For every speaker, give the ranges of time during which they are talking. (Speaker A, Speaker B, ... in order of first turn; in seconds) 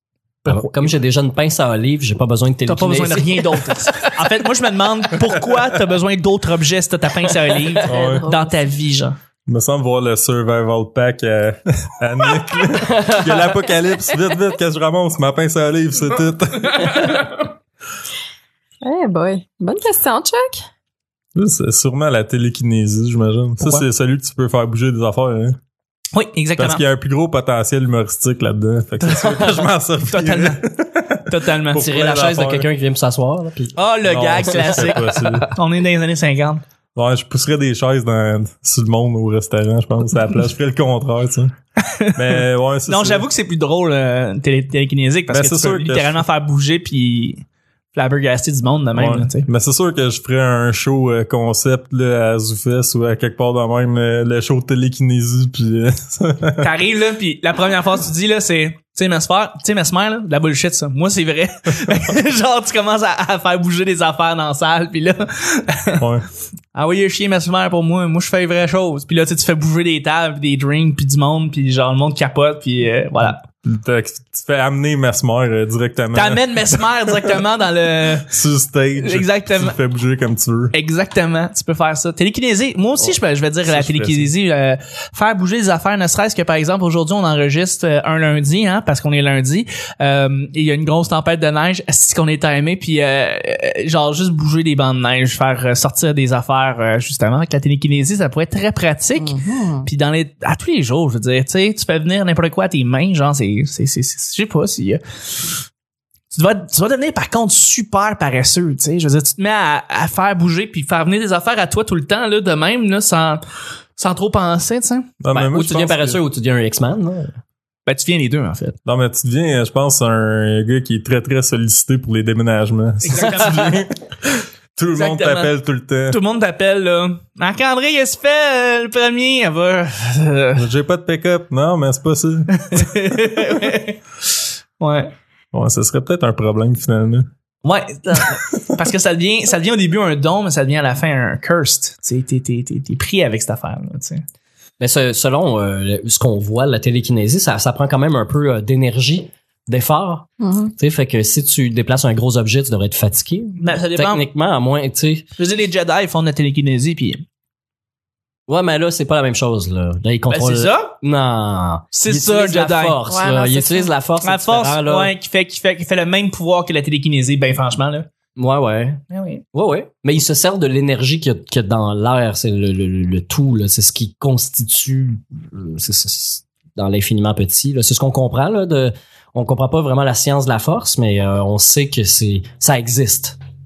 Speaker A: 0.4-0.9, 2.7-9.2, 26.1-26.8, 29.1-29.4, 30.1-30.6, 31.3-31.9, 33.8-36.6, 41.8-49.5, 56.6-66.0, 66.8-73.4, 76.1-78.3, 79.0-79.8, 80.7-105.6, 106.3-113.4, 114.0-115.2, 117.9-118.8, 123.0-123.8, 125.0-125.5, 126.1-130.7, 132.6-134.3, 134.8-135.1, 137.6-144.2, 153.6-154.2, 155.4-157.2, 160.3-160.9, 161.9-163.0, 164.2-168.1, 169.1-169.4
Speaker B: 0.5-4.1, 12.8-13.6, 31.7-33.8, 34.5-35.0, 115.3-117.3, 144.8-155.3, 158.5-165.1, 168.4-183.4
Speaker C: 7.9-8.2, 9.5-17.4, 21.4-25.6, 26.6-32.7, 34.0-35.5, 37.0-41.5, 42.1-43.3, 45.3-46.2, 49.0-56.7, 66.0-66.3, 73.5-77.3, 78.2-80.7, 83.7-84.3, 115.2-116.2, 118.8-126.2, 130.6-132.9, 135.5-137.3
Speaker D: 7.9-8.6, 18.8-20.7, 99.2-99.9, 150.4-150.7, 163.1-163.9